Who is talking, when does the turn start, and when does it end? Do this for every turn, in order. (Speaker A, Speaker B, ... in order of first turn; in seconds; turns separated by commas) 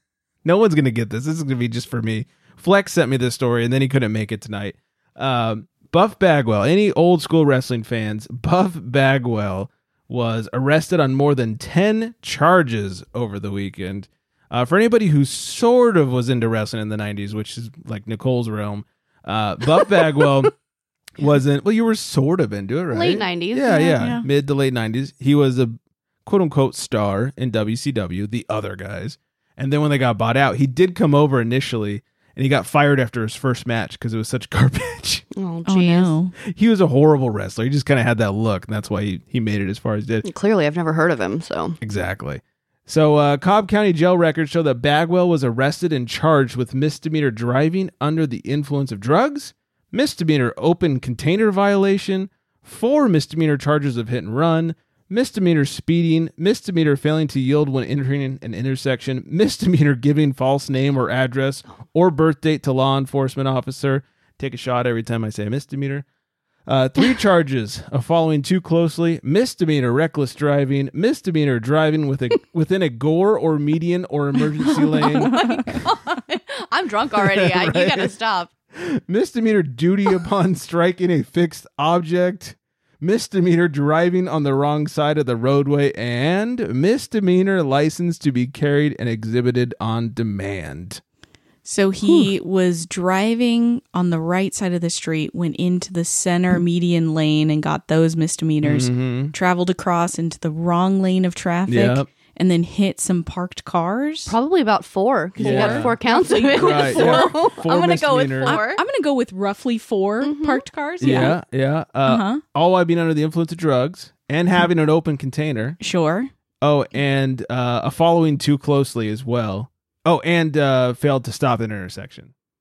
Speaker A: 0.4-20.5, Speaker A: 21.2-25.7, Speaker B: 22.9-23.9, Speaker C: 23.9-24.2, Speaker A: 26.2-35.2, Speaker B: 35.3-36.1, Speaker C: 35.6-36.3, Speaker A: 36.4-40.2, Speaker B: 40.2-41.8, Speaker A: 41.8-66.0, Speaker A: 66.7-75.4, Speaker B: 75.0-78.5, Speaker C: 75.2-75.6, Speaker A: 77.1-78.1, Speaker A: 78.7-91.0, Speaker C: 91.6-104.3, Speaker A: 98.6-99.3, Speaker A: 101.7-102.1, Speaker B: 104.3-108.8, Speaker C: 105.4-107.3, Speaker A: 105.4-106.0, Speaker A: 106.5-108.6, Speaker C: 108.5-111.3, Speaker B: 110.2-111.3, Speaker A: 111.0-115.8, Speaker C: 112.0-112.4, Speaker C: 115.8-116.3, Speaker A: 116.6-122.3